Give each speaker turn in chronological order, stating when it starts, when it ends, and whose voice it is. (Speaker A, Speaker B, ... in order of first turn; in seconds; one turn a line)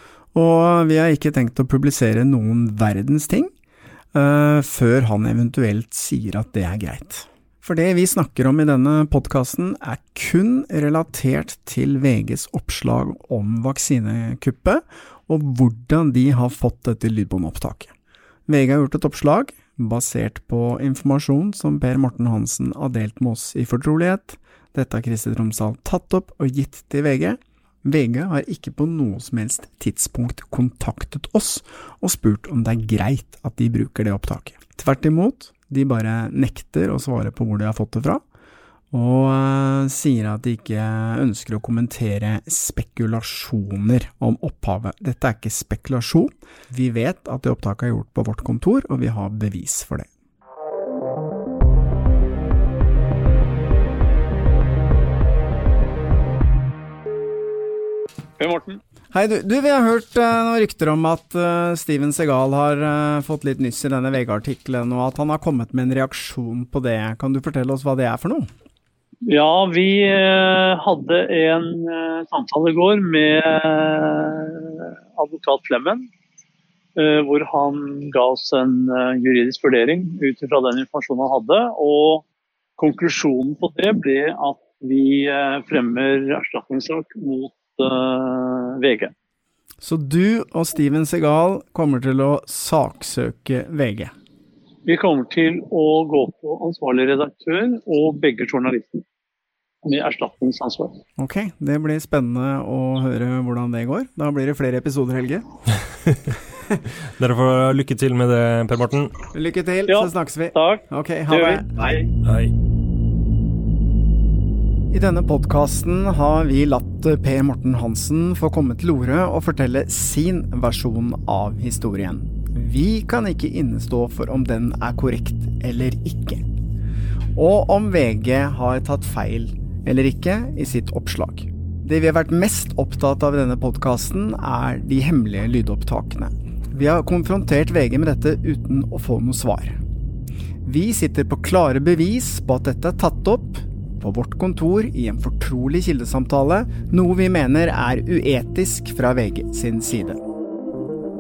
Speaker A: 0.3-3.5
Speaker A: 4.1-17.9
Speaker A: 18.5-38.2
Speaker A: 38.9-50.1
Speaker B: 58.4-58.8
Speaker A: 59.1-68.5
Speaker B: 69.3-76.1
Speaker B: 77.0-82.2
Speaker B: 82.8-89.1
Speaker A: 89.8-94.1
Speaker B: 94.9-99.0
Speaker B: 99.8-101.0
Speaker A: 101.2-105.5
Speaker C: 107.2-109.1
Speaker A: 109.3-112.1
Speaker B: 109.9-112.1
Speaker C: 112.2-112.5
Speaker A: 114.9-126.4
Speaker A: 127.3-139.8
Speaker A: 140.6-150.2